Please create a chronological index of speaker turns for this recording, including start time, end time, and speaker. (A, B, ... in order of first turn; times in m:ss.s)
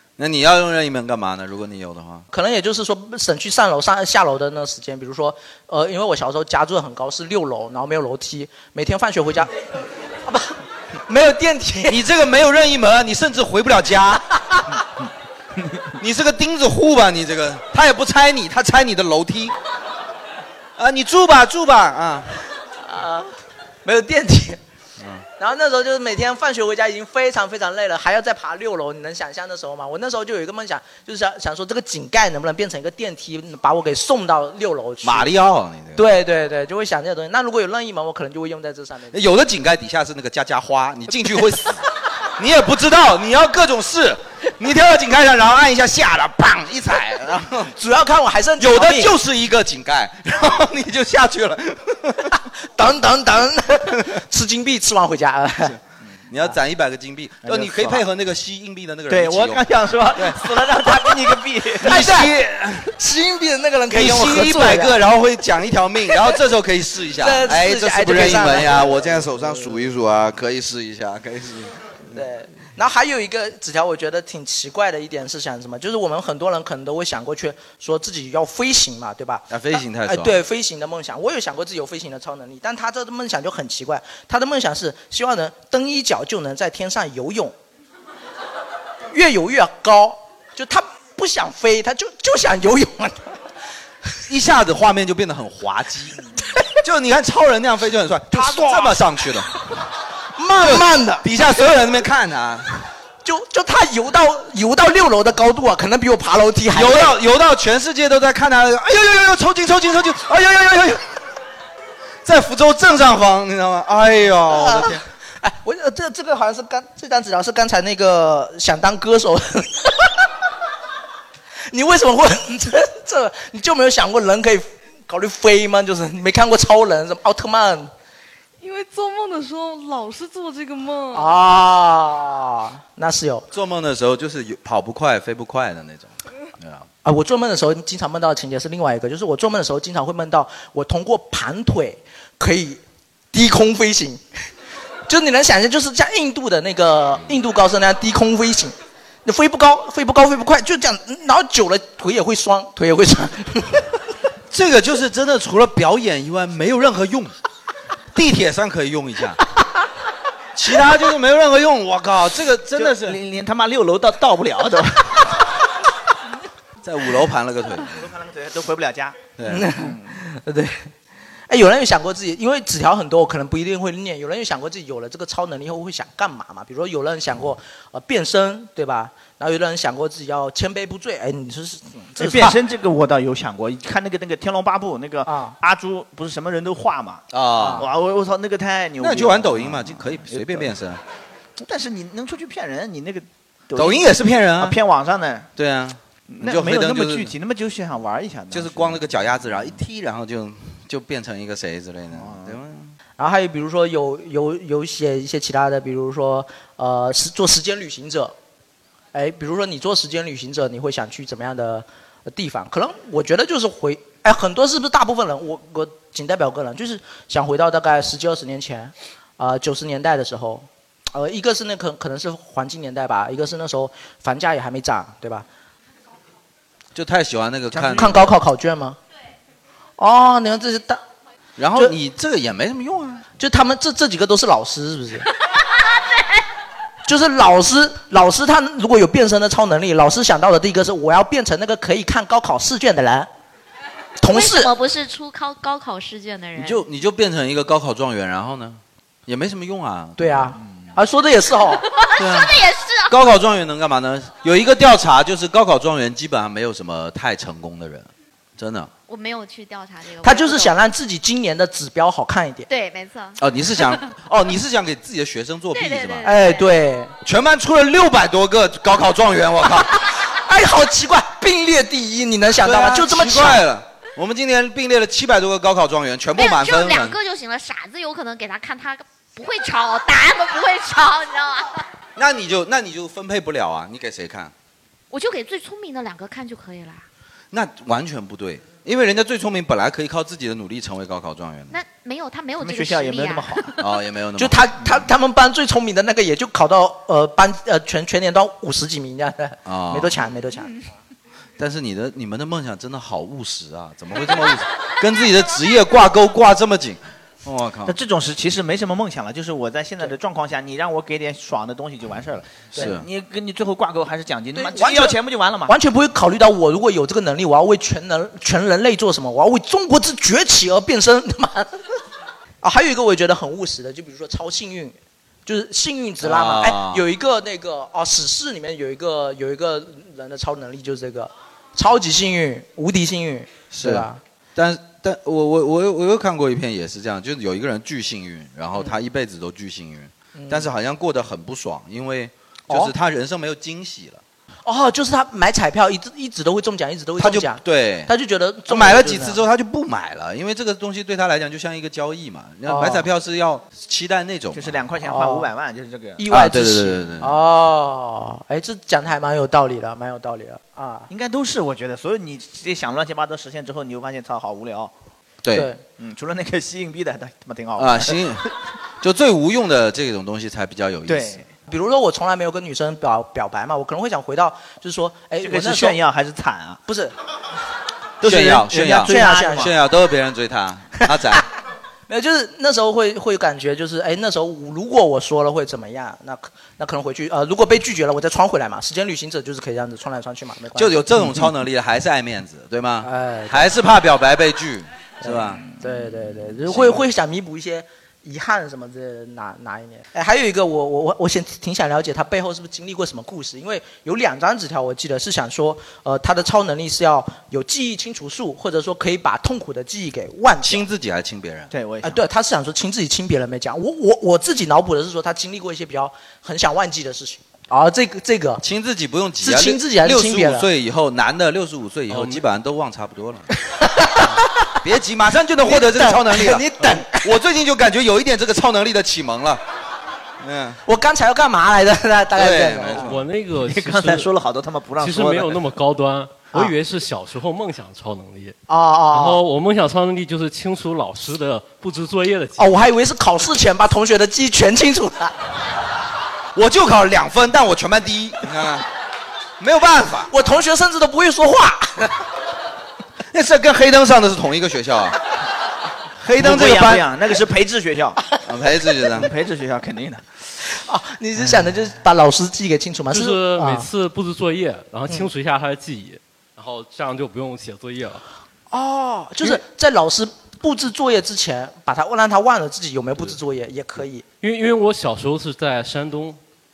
0:00.2-0:02.3 A
0:02.3-0:09.6 B
0:10.3-0:10.5 B
0:11.1-0:12.0 B
0:11.9-0:14.2 A
0:16.0-0:19.5 A
0:20.8-0:22.3 A
0:22.8-0:23.3 B
0:23.8-0:24.6 B
0:25.0-0:25.2 A
0:25.4-0:35.3 B
0:35.0-0:36.1 A
0:35.9-0:39.2 B
0:39.1-0:47.7 A
0:47.7-0:49.1 B
0:48.6-0:52.3 A
0:52.3-0:55.8 B
0:56.3-1:01.1 A
0:57.4-0:58.0 C
0:59.1-1:02.0 C
1:01.8-1:02.3 B
1:01.8-1:02.9 A
1:02.8-1:05.0 B
1:03.9-1:11.8 A
1:07.2-1:09.8 B
1:12.1-1:19.5 B
1:19.5-1:20.4 A
1:20.0-1:27.5 B
1:29.1-1:33.3 B
1:34.3-1:36.2 A
1:36.8-1:39.5 A
1:38.3-1:39.0 B
1:40.4-1:41.2 B
1:40.6-1:42.8 A
1:43.2-1:47.2 B
1:46.7-1:51.2 A
1:52.2-1:55.0 A
1:54.5-2:00.3 B
2:01.7-2:07.9 B
2:08.6-2:11.4 D
2:11.1-2:13.5 B
2:13.5-2:16.9 A
2:17.0-2:22.8 B
2:23.3-2:24.2 B
2:25.1-2:28.7 B
2:29.2-2:34.0 B
2:34.5-2:37.3 A
2:38.1-2:39.4 A
2:40.5-2:43.2 A
2:42.8-2:45.3 C
2:46.8-2:48.0 A
2:47.9-2:49.2 C
2:49.4-2:49.7 A
2:49.5-2:50.9 B
2:49.8-2:50.1 C
2:51.5-3:02.6 B
3:02.2-3:10.7 C
3:05.2-3:05.6 B
3:07.3-3:07.8 A
3:07.6-3:07.8 B
3:09.0-3:11.0 A
3:11.6-3:15.5 C
3:13.8-3:14.8 A
3:15.6-3:17.3 A
3:16.3-3:19.0 C
3:18.5-3:22.9 A
3:22.1-3:22.6 C
3:23.2-3:28.3 B
3:29.1-3:45.5 B
3:46.9-3:48.2 A
3:47.7-3:48.0 C
3:47.9-3:49.0 B
3:50.0-3:51.0 B
3:51.6-3:53.2 A
3:53.4-3:55.3 B
3:57.0-4:03.3 B
4:04.2-4:04.7 B
4:04.3-4:06.8 E
4:06.6-4:10.5 A
4:10.2-4:11.8 B
4:11.9-4:13.1 E
4:12.2-4:18.9 A
4:19.1-4:20.8 E
4:20.2-4:22.6 B
4:22.7-4:24.1 E
4:23.4-4:26.3 A
4:25.7-4:26.7 E
4:26.2-4:27.1 B
4:27.2-4:29.9 A
4:30.1-4:33.6 B
4:32.6-4:37.2 A
4:36.4-4:41.8 E
4:42.2-4:44.5 A
4:45.1-4:47.0 E
4:47.5-4:51.8 A
4:51.7-4:53.7 E
4:52.6-4:53.8 C
4:53.8-4:55.1 A
4:54.4-5:00.8 B
4:59.6-5:00.2 A
5:01.6-5:08.0 A
5:07.8-5:15.7 C
5:12.8-5:13.0 A
5:14.5-5:21.7 B
5:22.6-5:34.2 B
5:26.2-5:27.0 A
5:33.7-5:44.2 A
5:40.3-5:40.7 B
5:42.7-5:42.9 B
5:44.6-5:49.4 B
5:47.2-5:48.1 A
5:48.7-5:54.8 A
5:52.7-5:53.1 B
5:54.5-5:56.2 C
5:55.0-5:55.5 B
5:56.2-6:01.1 B
5:56.3-5:57.3 A
6:01.1-6:04.9 C
6:05.4-6:05.7 A
6:05.5-6:05.8 B
6:06.0-6:08.2 C
6:07.8-6:08.5 A
6:09.0-6:11.4 A
6:11.1-6:11.5 C
6:11.7-6:16.0 B
6:15.4-6:16.8 C
6:16.9-6:17.1 B
6:18.2-6:19.7 C
6:18.2-6:21.4 A
6:18.8-6:19.7 B
6:22.1-6:31.4 B
6:30.8-6:35.6 A
6:33.0-6:33.7 B
6:35.2-6:50.8 B
6:50.6-6:51.7 A
6:51.7-6:52.2 C
6:52.0-6:58.6 B
6:58.6-7:03.5 A
6:59.4-7:00.6 B
7:02.1-7:02.4 F
7:03.7-7:04.7 B
7:04.8-7:09.6 A
7:05.6-7:07.2 B
7:10.4-7:10.8 A
7:10.8-7:13.2 B
7:12.3-7:13.0 A
7:12.9-7:15.7 C
7:13.0-7:14.3 F
7:15.0-7:18.6 F
7:18.7-7:19.4 B
7:19.1-7:22.7 F
7:22.6-7:25.3 B
7:26.5-7:28.9 A
7:29.6-7:30.3 A
7:30.3-7:32.2 B
7:33.3-7:35.2 A
7:36.2-7:37.0 A
7:36.4-7:38.2 C
7:38.4-7:39.3 A
7:39.1-7:40.2 C
7:40.6-7:43.9 B
7:43.1-7:48.2 F
7:48.7-7:54.2 B
7:54.4-7:56.4 F